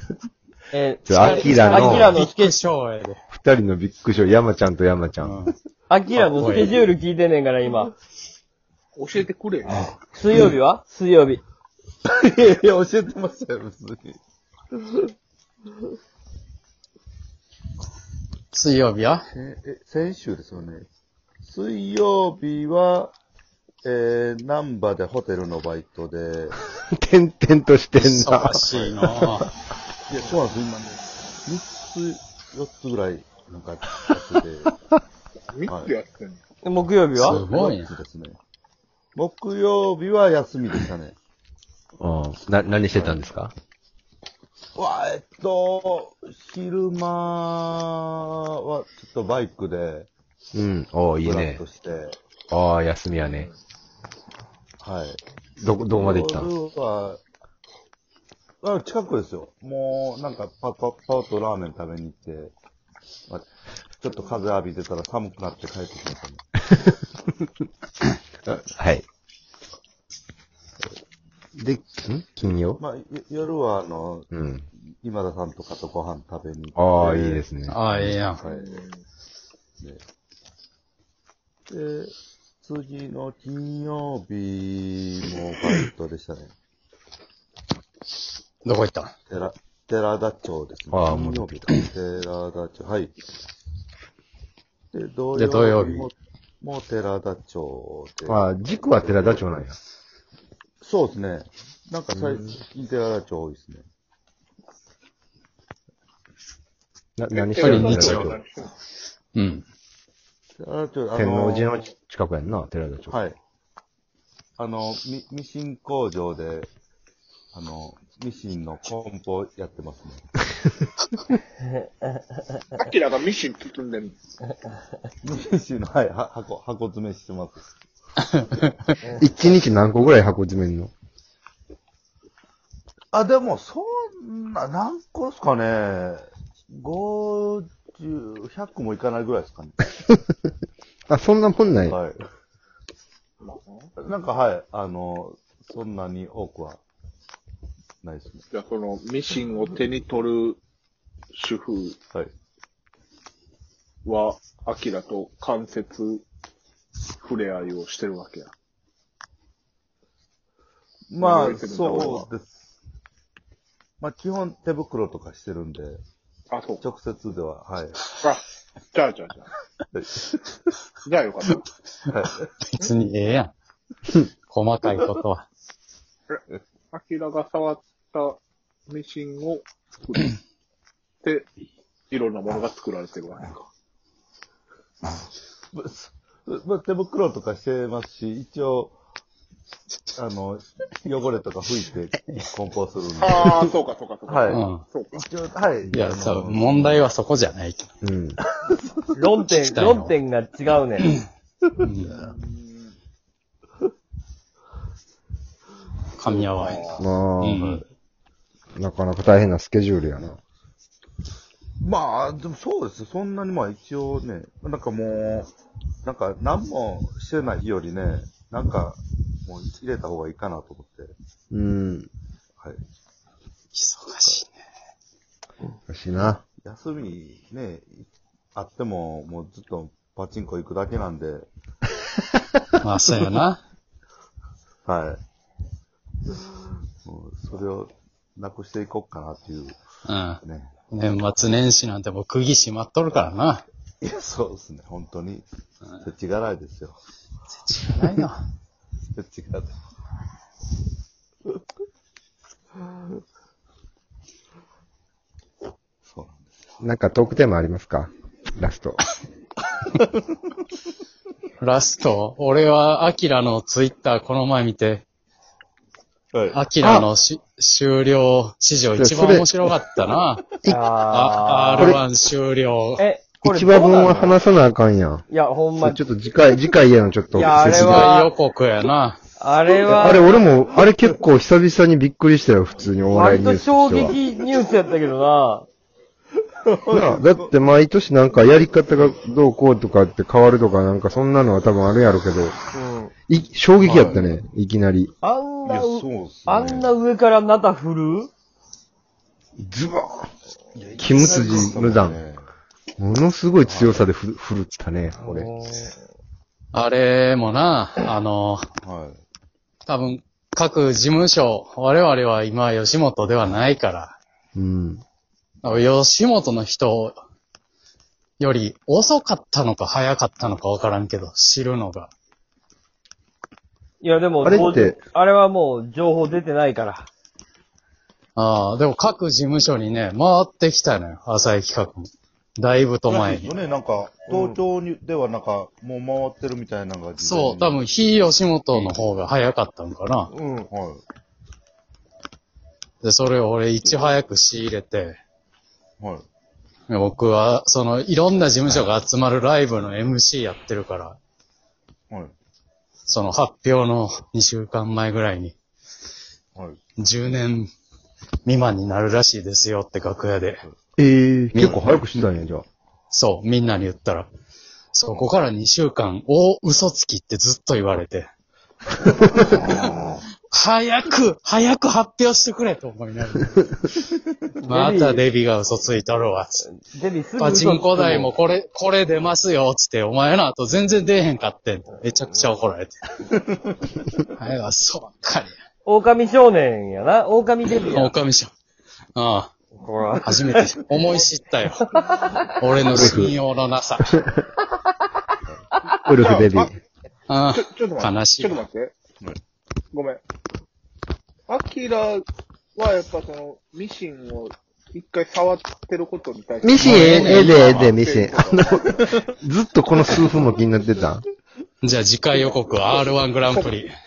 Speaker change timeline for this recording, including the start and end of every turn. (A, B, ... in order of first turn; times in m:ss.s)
0:00.7-0:02.6 A
0:01.0-0:02.2 B
0:01.2-0:03.2 C
0:03.3-0:05.3 B
0:05.2-0:05.6 C
0:05.9-0:07.9 A
0:06.1-0:06.9 C
0:09.0-0:09.9 D
0:09.7-0:09.9 E
0:10.1-0:11.4 A
0:12.0-0:14.2 E
0:14.7-0:15.1 E
0:18.5-0:19.2 C
0:19.3-0:20.9 E
0:21.4-0:23.1 E
0:23.8-0:26.6 E
0:26.8-0:28.6 B
0:28.0-0:29.5 C
0:30.1-0:34.7 E
0:35.5-0:36.4 D
0:35.6-0:35.9 E
0:36.6-0:37.4 A
0:37.2-0:37.9 C
0:37.2-0:38.4 E
0:39.1-0:41.1 E
0:42.0-0:43.5 B
0:42.9-0:43.2 E
0:44.8-0:50.1 E
0:50.5-0:51.6 B
0:51.2-0:52.2 E
0:52.5-0:53.5 B
0:54.8-0:55.2 E
0:55.6-0:56.5 B
0:55.9-0:57.2 E
0:58.6-1:02.5 E
1:04.0-1:06.4 E
1:08.4-1:09.0 B
1:11.6-1:12.8 B
1:12.8-1:17.4 E
1:14.3-1:14.6 B
1:16.8-1:18.2 B
1:17.7-1:18.4 C
1:18.4-1:18.8 E
1:18.4-1:19.0 D
1:21.7-1:26.5 E
1:28.6-1:29.1 C
1:29.3-1:33.1 E
1:30.9-1:31.7 B
1:34.9-1:39.5 E
1:35.3-1:36.1 C
1:38.3-1:39.8 B
1:40.8-1:43.8 E
1:47.2-1:48.4 B
1:47.3-1:48.7 D
1:47.6-1:48.3 C
1:49.3-1:49.6 C
1:50.6-1:51.8 E
1:51.1-1:53.2 B
1:53.1-1:53.4 E
1:54.6-1:56.7 E
1:57.5-2:00.3 E
2:02.7-2:04.2 D
2:05.2-2:07.6 E
2:08.3-2:08.7 C
2:09.1-2:10.9 B
2:13.1-2:19.9 E
2:21.1-2:22.0 B
2:21.8-2:22.2 E
2:23.4-2:23.9 D
2:24.0-2:26.8 E
2:28.0-2:28.4 E
2:28.5-2:30.6 D
2:31.3-2:32.0 D
2:34.0-2:36.2 D
2:37.2-2:38.5 D
2:41.1-2:42.7 E
2:41.2-2:42.3 D
2:44.0-2:46.0 E
2:46.5-2:46.8 D
2:46.8-2:48.2 E
2:48.2-2:49.5 D
2:49.9-2:50.7 E
2:51.0-2:51.6 D
2:52.1-2:52.5 E
2:52.6-2:53.5 C
2:54.5-2:55.5 C
2:56.3-3:00.4 D
3:01.2-3:01.5 D
3:02.1-3:03.7 D
3:05.7-3:09.0 E
3:10.1-3:13.7 E
3:13.2-3:15.3 D
3:14.2-3:17.1 E
3:14.5-3:14.8 C
3:15.9-3:17.9 C
3:18.0-3:18.4 B
3:18.4-3:19.1 E
3:19.2-3:21.1 A
3:19.5-3:20.1 C
3:21.8-3:22.2 C
3:22.1-3:22.9 D
3:26.2-3:27.8 C
3:26.4-3:27.0 D
3:27.0-3:27.6 B
3:27.5-3:27.8 E
3:28.8-3:30.4 B
3:31.8-3:35.5 E
3:36.0-3:41.1 E
3:41.5-3:42.1 B
3:43.7-3:44.5 C
3:45.9-3:46.4 B
3:46.6-3:51.5 E
3:52.8-3:53.6 C
3:54.8-3:55.2 E
3:57.0-3:59.8 E
4:00.0-4:03.6 C
4:00.4-4:00.7 E
4:04.0-4:05.5 E
4:06.0-4:07.0 E
4:07.5-4:08.4 C
4:09.1-4:09.8 E
4:16.0-4:16.7 E
4:16.8-4:19.0 B
4:21.6-4:25.0 C
4:26.3-4:26.6 E
4:26.5-4:33.0 C
4:26.8-4:27.1 B
4:29.0-4:29.5 B
4:30.6-4:32.0 A
4:31.8-4:32.0 B
4:33.0-4:34.4 A
4:33.4-4:35.3 B
4:35.3-4:36.0 A
4:35.8-4:38.1 B
4:37.3-4:38.3 A
4:37.6-4:39.2 C
4:39.4-4:40.4 A
4:39.7-4:40.4 E
4:39.9-4:44.2 B
4:43.1-4:45.7 A
4:46.6-4:47.5 E
4:46.9-4:52.6 B
4:52.7-4:53.1 A
4:53.3-4:55.1 B
4:53.8-4:54.3 E
4:55.2-4:58.3 A
4:55.6-4:56.9 E
4:59.6-5:00.3 B
5:00.7-5:02.5 E
5:01.0-5:02.2 B
5:03.0-5:05.5 B
5:03.6-5:04.1 E
5:05.2-5:06.0 A
5:06.7-5:08.7 C
5:08.8-5:09.2 E
5:09.9-5:14.2 C
5:14.6-5:15.0 B
5:15.6-5:15.9 E
5:15.6-5:17.2 C
5:18.4-5:22.1 C
5:24.0-5:27.1 A
5:24.4-5:25.0 B
5:28.4-5:33.5 C
5:33.0-5:39.2 E
5:34.3-5:34.6 A
5:37.2-5:40.3 C
5:40.3-5:40.7 A
5:40.7-5:41.0 E
5:43.0-5:45.2 C
5:46.0-5:46.2 E
5:46.9-5:51.2 C
5:53.1-5:55.5 C
5:57.0-5:57.7 C
5:58.4-6:00.6 C
6:01.0-6:02.6 B
6:01.5-6:01.8 C
6:01.6-6:02.2 E
6:03.1-6:04.3 C
6:04.9-6:08.3 C
6:05.1-6:05.4 E
6:09.4-6:10.0 C
6:10.5-6:14.1 C
6:14.6-6:15.2 A
6:14.7-6:16.6 C
6:16.6-6:18.3 A
6:17.4-6:23.0 C
6:24.2-6:25.5 C
6:25.8-6:28.1 A
6:27.9-6:28.5 C
6:29.1-6:29.5 C
6:29.8-6:30.6 A
6:30.2-6:31.8 C
6:32.6-6:34.2 C
6:32.9-6:33.3 B
6:36.0-6:36.7 B
6:36.1-6:36.7 D
6:37.3-6:38.6 C
6:37.5-6:39.0 D
6:39.9-6:40.2 D
6:41.5-6:42.2 D
6:42.8-6:49.0 D
6:46.6-6:51.2 B
6:46.8-6:47.8 C
6:51.8-6:53.9 C